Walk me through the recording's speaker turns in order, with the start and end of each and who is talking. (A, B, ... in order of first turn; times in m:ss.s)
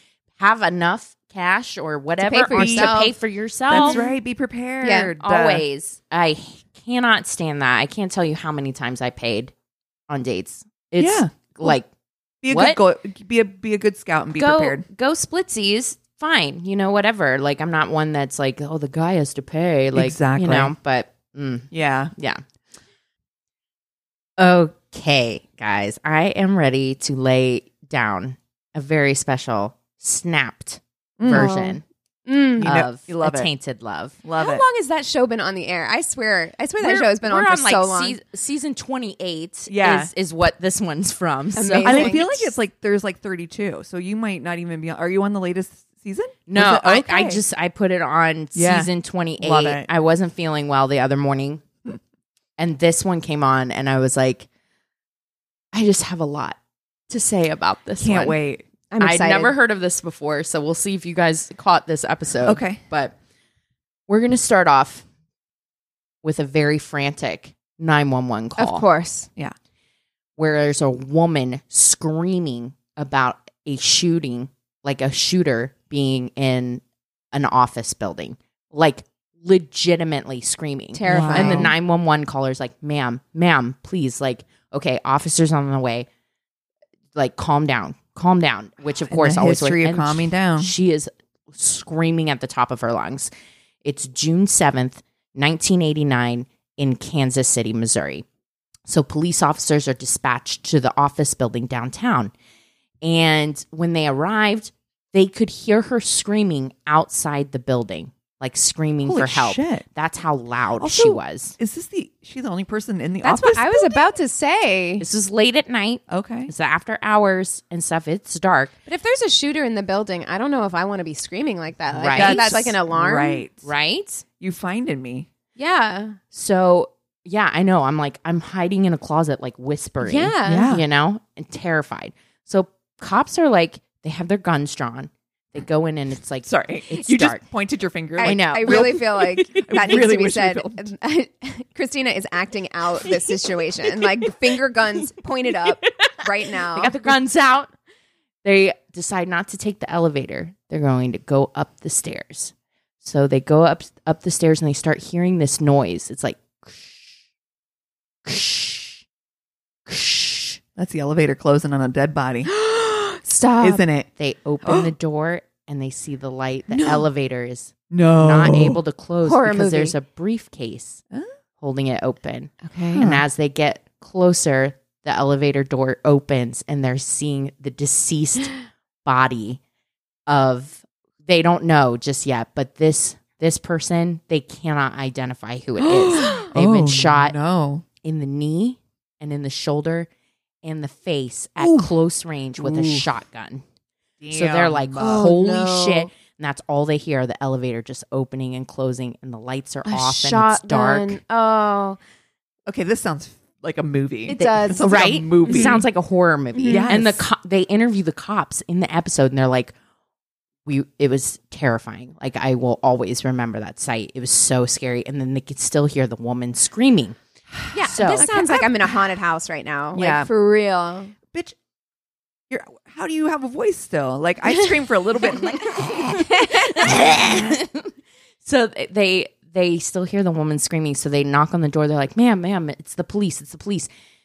0:00.4-0:04.0 A
0:02.2-0:03.1 B
0:02.5-0:03.0 C
0:03.7-0:05.6 C
0:03.7-0:04.1 B
0:04.8-0:05.1 B
0:05.2-0:09.5 A
0:10.1-0:11.9 A
0:11.0-0:11.8 C
0:12.4-0:14.8 C
0:12.5-0:12.8 A
0:14.3-0:22.4 A
0:19.9-0:20.7 C
0:21.7-0:22.1 C
0:24.4-0:31.8 A
0:31.2-0:31.6 C
0:31.3-0:32.7 B
0:32.6-0:33.5 C
0:32.6-0:34.2 A
0:34.2-0:34.6 C
0:34.4-0:38.2 B
0:36.8-0:42.4 A
0:39.7-0:40.1 C
0:41.5-0:42.4 B
0:41.8-0:47.4 C
0:46.5-0:51.6 A
0:48.5-0:49.9 C
0:52.6-0:54.5 A
0:55.7-0:56.6 A
0:57.1-0:58.4 A
0:58.0-0:58.6 C
0:58.9-0:59.5 B
0:59.0-1:03.1 A
1:02.4-1:02.8 C
1:04.1-1:05.0 A
1:06.2-1:08.8 A
1:08.6-1:09.3 B
1:10.4-1:16.8 A
1:17.3-1:26.1 A
1:20.9-1:21.7 B
1:21.1-1:21.7 C
1:27.1-1:33.3 A
1:28.9-1:30.7 C
1:33.8-1:38.2 A
1:38.9-1:42.3 A
1:43.0-1:51.6 A
1:49.0-1:49.8 C
1:50.8-1:54.1 C
1:53.2-1:55.0 B
1:55.0-1:58.7 A
1:56.1-1:56.5 C
1:58.8-2:03.4 B
2:02.0-2:02.6 A
2:02.1-2:03.7 C
2:03.6-2:04.2 A
2:04.4-2:05.3 C
2:05.6-2:06.2 B
2:06.3-2:17.4 A
2:10.0-2:10.7 B
2:10.4-2:10.8 C
2:16.4-2:20.9 C
2:18.2-2:26.9 B
2:18.2-2:19.0 A
2:25.8-2:27.7 A
2:28.4-2:37.1 A
2:38.2-2:39.0 A
2:39.9-2:40.6 A
2:40.8-2:42.5 C
2:42.4-2:43.8 B
2:43.6-2:44.1 C
2:44.2-2:51.0 A
2:44.6-2:44.9 C
2:47.9-2:48.8 C
2:49.2-2:50.0 B
2:51.6-2:59.6 A
2:52.7-2:53.2 C
3:00.3-3:07.3 A
3:05.8-3:07.8 C
3:06.2-3:06.4 B
3:08.0-3:10.1 A
3:10.6-3:13.6 A
3:11.6-3:11.9 C
3:12.6-3:13.1 C
3:14.2-3:15.3 C
3:14.3-3:21.2 A
3:15.0-3:16.1 B
3:19.8-3:22.0 B
3:22.6-3:25.8 C
3:24.3-3:25.8 B
3:24.4-3:29.7 A
3:26.5-3:26.9 B
3:26.6-3:27.2 C
3:30.6-3:37.2 A
3:37.7-3:41.1 B
3:37.8-3:38.4 A
3:38.1-3:38.9 C
3:39.9-3:40.3 C
3:42.5-3:46.2 C
3:45.2-3:47.0 B
3:46.6-3:47.9 A
3:46.8-3:47.6 C
3:48.4-3:53.9 A